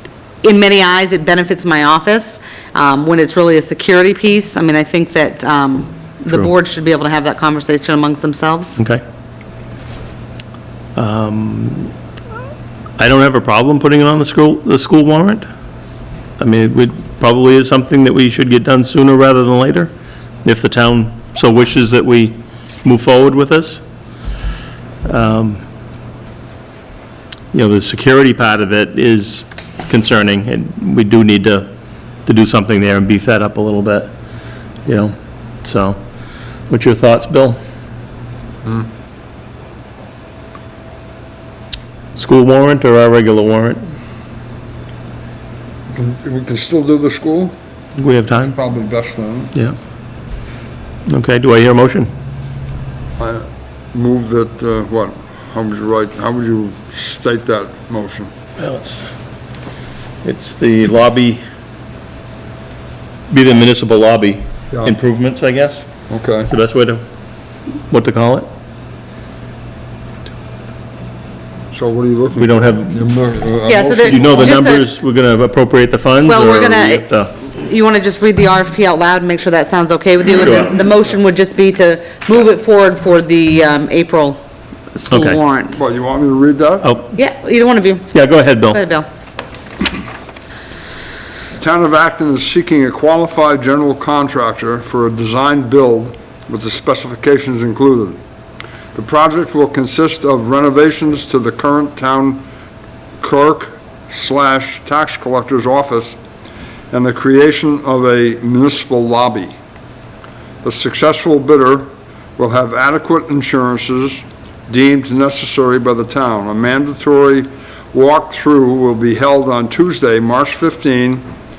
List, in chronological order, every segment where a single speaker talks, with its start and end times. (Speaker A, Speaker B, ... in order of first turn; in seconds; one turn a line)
Speaker A: 0.4-8.8
Speaker B: 10.9-11.9
Speaker B: 13.0-15.4
Speaker B: 16.4-19.9
Speaker B: 20.4-23.8
Speaker B: 25.0-25.6
Speaker B: 27.5-31.7
Speaker B: 32.2-34.1
Speaker B: 34.9-36.0
Speaker B: 36.7-37.6
Speaker B: 42.1-43.8
Speaker C: 45.9-47.5
Speaker B: 48.0-48.5
Speaker C: 48.4-49.5
Speaker B: 51.1-52.1
Speaker C: 53.2-58.3
Speaker B: 58.6-59.1
Speaker B: 60.2-61.4
Speaker B: 63.3-65.9
Speaker C: 66.1-66.5
Speaker B: 66.5-67.0
Speaker B: 67.9-68.5
Speaker C: 71.7-74.6
Speaker B: 72.3-73.0
Speaker A: 73.7-74.8
Speaker B: 74.1-77.3
Speaker A: 76.2-84.4
Speaker B: 80.4-80.7
Speaker A: 84.9-85.8
Speaker B: 85.1-85.4
Speaker C: 85.7-86.9
Speaker B: 86.8-87.1
Speaker A: 87.1-88.1
Speaker B: 88.1-88.8
Speaker A: 88.7-89.1
Speaker C: 91.6-98.2
Speaker C: 98.9-102.4
Speaker C: 103.2-106.2
Speaker C: 106.9-109.5
Speaker C: 110.6-121.2